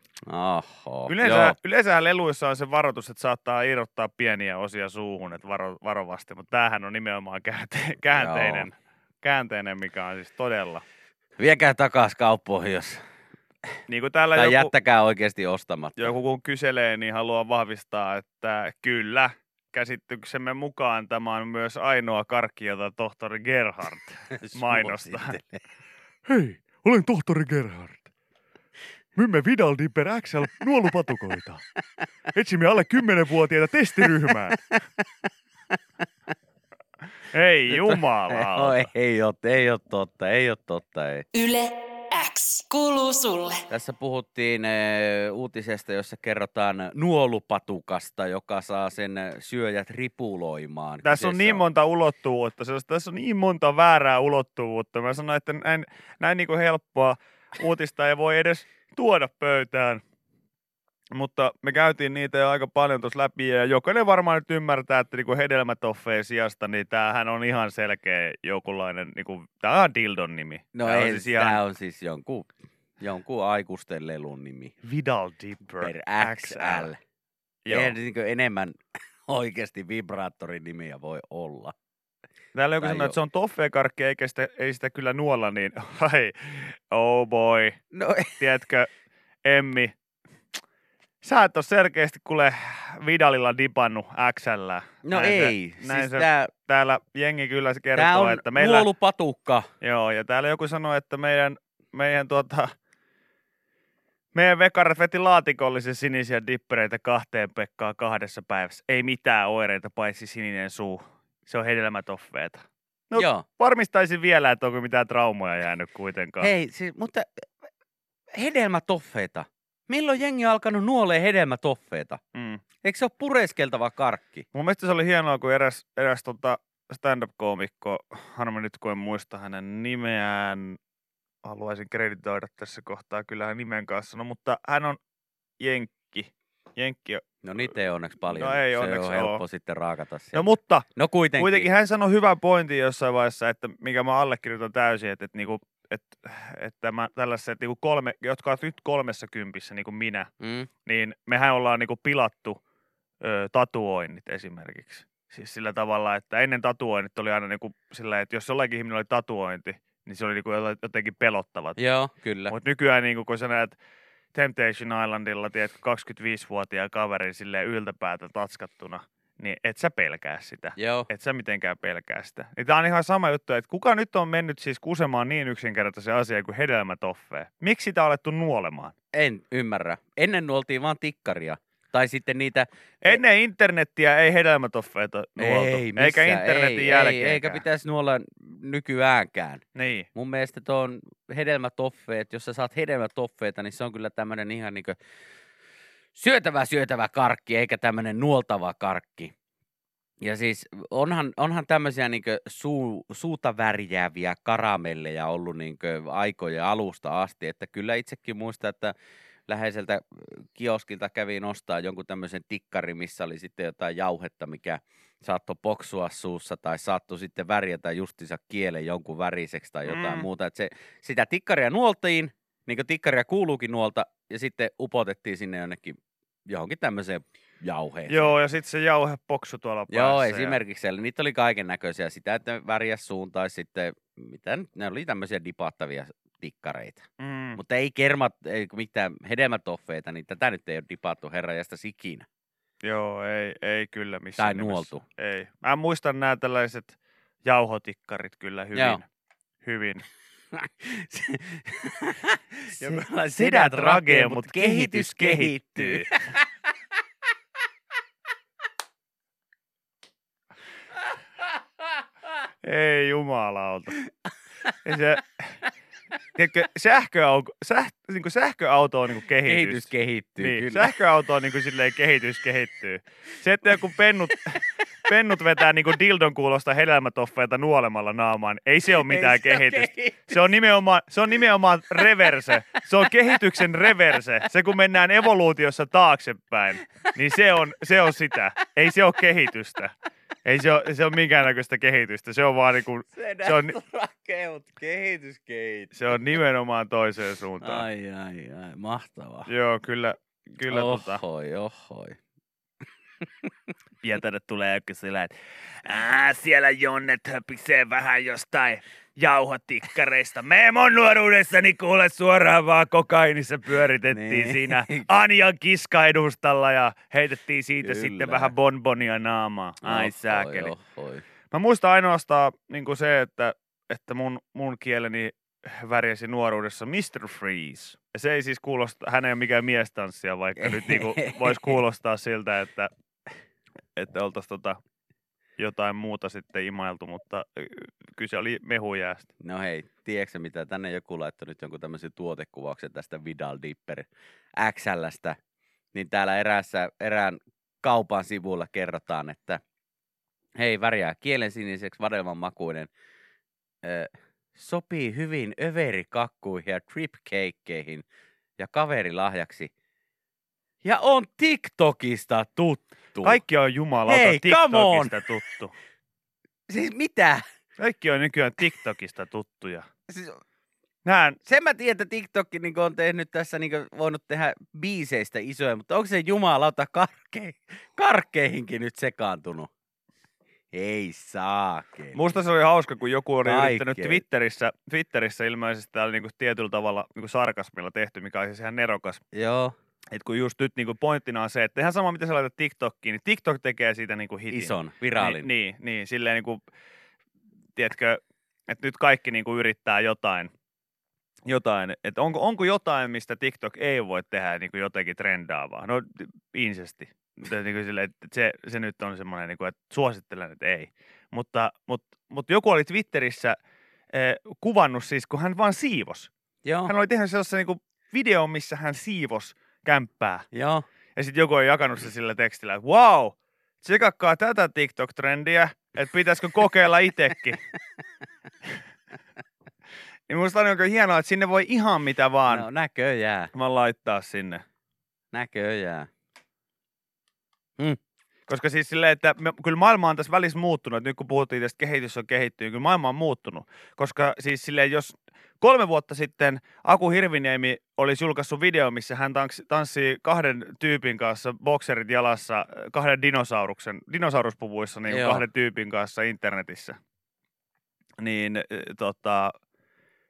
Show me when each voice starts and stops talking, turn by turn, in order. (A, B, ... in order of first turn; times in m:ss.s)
0:00.2-0:01.6 A
0:01.1-0:10.8 B
0:08.1-0:08.7 A
0:11.4-0:13.0 A
0:13.9-0:14.7 B
0:14.3-0:16.1 A
0:16.0-0:25.4 B
0:24.4-0:25.6 A
0:26.3-0:28.1 B
0:29.2-0:31.6 B
0:32.3-0:34.6 B
0:37.3-0:38.9 B
0:37.7-0:41.2 A
0:41.3-0:43.6 C
0:43.7-0:51.6 A
0:51.0-1:00.0 B
1:01.1-1:11.6 B
1:10.7-1:12.5 A
1:13.0-1:14.7 A
1:14.8-1:16.9 B
1:15.8-1:17.0 A
1:17.6-1:18.0 B
1:17.7-1:21.7 A
1:22.5-1:27.8 B
1:22.8-1:23.1 A
1:27.9-1:28.4 A
1:28.4-1:28.9 B
1:29.4-1:29.9 B
1:31.2-1:38.9 B
1:35.0-1:36.5 A
1:38.0-1:39.7 A
1:39.8-1:42.7 B
1:44.3-1:56.5 B
1:53.1-1:53.4 A
1:56.4-1:57.4 A
1:58.3-2:02.2 A
2:02.3-2:02.6 B
2:02.8-2:04.4 A
2:04.5-2:10.8 B
2:11.4-2:15.0 B
2:15.6-2:17.2 B
2:17.4-2:21.7 A
2:18.3-2:19.4 B
2:20.3-2:30.3 B
2:30.4-2:30.7 A
2:30.8-2:32.6 B
2:33.2-2:41.8 B
2:41.8-2:42.5 A
2:42.5-2:43.8 B
2:44.3-2:58.9 B
2:50.8-2:51.1 A
2:59.1-3:03.2 A
3:03.0-3:07.6 B
3:05.4-3:09.6 A
3:09.7-3:10.1 B
3:10.1-3:15.0 A
3:16.1-3:19.3 A
3:20.2-3:28.9 A
3:29.5-3:48.3 A
3:39.8-3:40.3 B
3:48.1-3:50.6 B
3:49.9-4:02.3 A
3:57.2-3:57.6 B
4:02.8-4:09.0 B
4:04.4-4:05.0 A
4:08.7-4:09.0 A
4:09.6-4:10.0 B
4:10.6-4:16.2 A
4:12.8-4:16.1 B
4:22.6-4:24.0 B
4:24.8-4:25.6 B
4:26.3-4:53.8 B
4:29.5-4:30.9 A
4:53.2-4:55.9 A
4:55.9-4:57.8 B
4:57.6-4:59.5 A
4:59.5-5:01.2 B
5:00.7-5:02.2 A
5:04.0-5:20.7 B
5:14.1-5:15.0 A
5:17.8-5:18.5 A
5:19.8-5:21.2 A
5:21.5-5:32.9 B
5:30.6-5:31.6 A
5:34.0-5:34.8 B
5:35.6-5:39.3 B
5:39.4-5:45.4 A
5:45.9-5:49.6 A
5:50.6-5:52.9 A
5:53.8-5:58.0 A
5:58.6-5:59.7 A
6:00.8-6:03.4 A
6:03.2-6:05.7 B
6:04.1-6:05.1 A
6:06.7-6:07.4 A
6:07.8-6:09.9 B
6:10.1-6:10.4 A
6:11.0-6:11.4 B
6:11.4-6:19.7 A
6:20.7-6:22.2 A
6:22.1-6:29.2 B
6:23.4-6:24.2 A
6:29.3-6:29.7 A
6:30.1-6:36.6 B
6:34.5-6:35.5 A
6:37.8-6:40.5 B
6:41.4-6:53.6 B
6:54.1-6:56.3 B
6:56.6-6:56.9 A
6:56.8-7:00.4 B
7:00.5-7:00.8 A
7:01.1-7:07.6 B
7:10.3-7:12.7 B
7:12.5-7:13.5 A
7:13.5-7:14.6 B
7:15.3-7:16.1 A
7:18.5-7:37.0 B
7:35.1-7:35.4 A
7:38.2-7:39.6 B